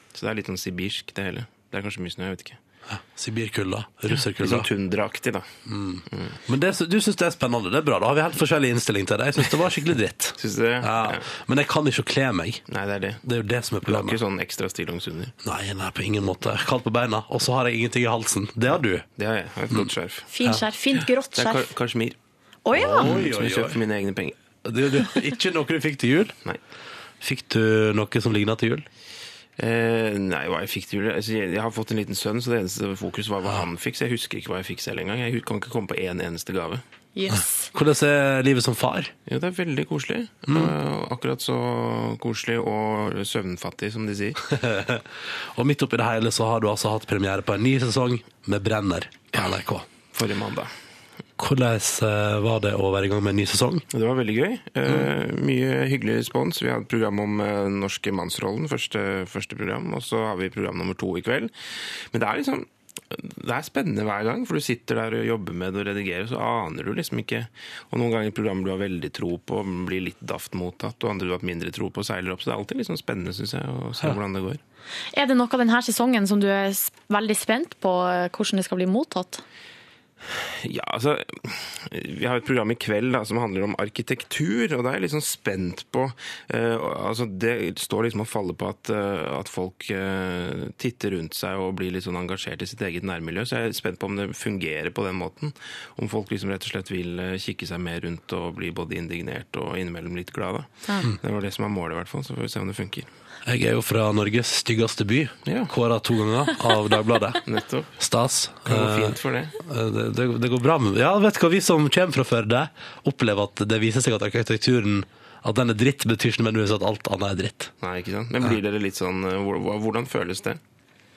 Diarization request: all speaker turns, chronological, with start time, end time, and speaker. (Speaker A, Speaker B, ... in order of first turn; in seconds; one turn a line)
Speaker A: 0.1-2.6
Speaker B: 2.9-4.7
Speaker A: 4.4-5.5
Speaker B: 5.7-12.6
Speaker A: 10.4-11.2
Speaker A: 12.7-13.2
Speaker B: 13.2-14.2
Speaker A: 13.9-15.3
Speaker B: 15.4-19.1
Speaker A: 19.2-20.3
Speaker C: 20.3-21.7
Speaker A: 21.4-22.2
Speaker C: 22.6-23.2
Speaker B: 22.7-23.8
Speaker A: 23.0-24.4
Speaker B: 24.6-26.4
Speaker B: 27.2-28.9
Speaker A: 29.6-36.8
Speaker C: 37.1-37.7
Speaker B: 37.3-39.1
Speaker A: 39.3-44.4
Speaker B: 44.5-49.9
Speaker A: 49.3-49.6
Speaker A: 50.1-50.7
Speaker B: 51.4-53.8
Speaker A: 53.9-61.5
Speaker A: 62.1-74.6
Speaker C: 75.1-79.4
Speaker A: 80.3-103.1
Speaker B: 103.5-107.4
Speaker A: 105.5-105.7
Speaker A: 107.4-107.9
Speaker B: 108.0-117.7
Speaker A: 108.6-109.5
Speaker A: 117.8-120.6